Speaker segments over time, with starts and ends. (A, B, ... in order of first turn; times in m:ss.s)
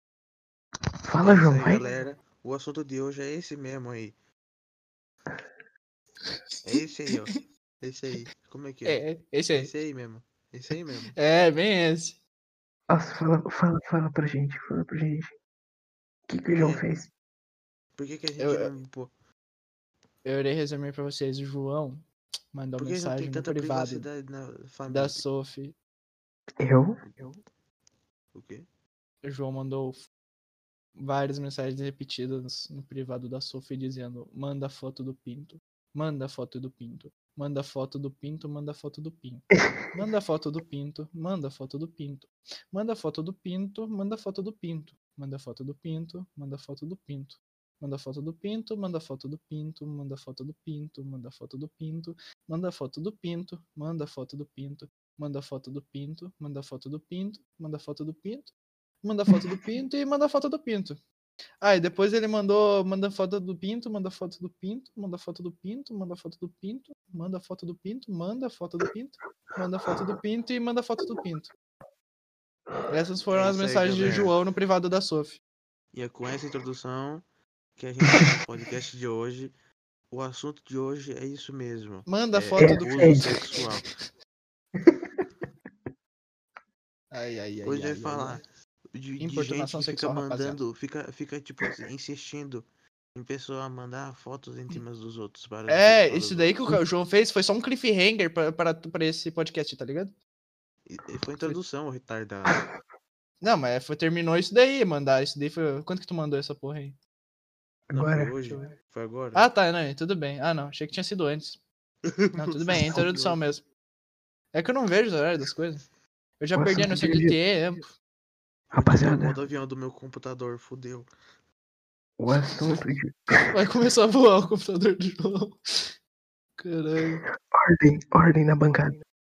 0:01.0-0:01.8 A
0:01.2-0:04.1 B
0:06.6-0:11.1 B
0:08.8-0:09.7 C
0:11.2-0:12.2 C
0:12.9-0:15.3 A
0:16.3-0:17.1 A
0:16.5-0:16.8 B
0:18.0-0:19.1 B
0:18.4-0:18.7 C
0:20.2-0:24.1 C
0:22.8-0:25.2 B
0:24.9-0:25.8 C
0:26.6-0:27.0 A
0:28.3-0:28.6 B
0:29.2-0:30.1 C
0:31.0-1:01.0 C
1:01.6-1:11.5 C
1:12.9-1:15.4 C
1:13.3-1:14.3 B
1:15.9-1:17.2 B
1:17.8-1:19.5 B
1:20.1-1:23.9 B
1:22.0-1:23.4 C
1:22.6-1:23.3 A
1:24.8-1:25.2 A
1:27.1-1:28.4 C
1:27.6-1:28.4 B
1:28.9-1:32.6 B
1:29.2-1:30.6 C
1:33.1-1:36.7 B
1:35.7-1:40.1 C
1:40.9-1:42.6 B
1:43.4-1:47.0 C
1:47.9-1:48.4 A
1:47.9-1:49.5 B
1:49.3-1:51.6 C
1:52.0-1:53.2 B
1:52.4-1:53.6 C
1:52.8-1:53.1 A
1:54.5-1:55.8 C
1:56.4-1:57.9 C
1:56.5-1:57.4 A
1:58.7-1:59.4 A
1:58.7-2:01.1 B
2:02.2-2:03.6 A
2:03.5-2:05.9 C
2:06.6-2:07.2 C
2:07.4-2:08.9 A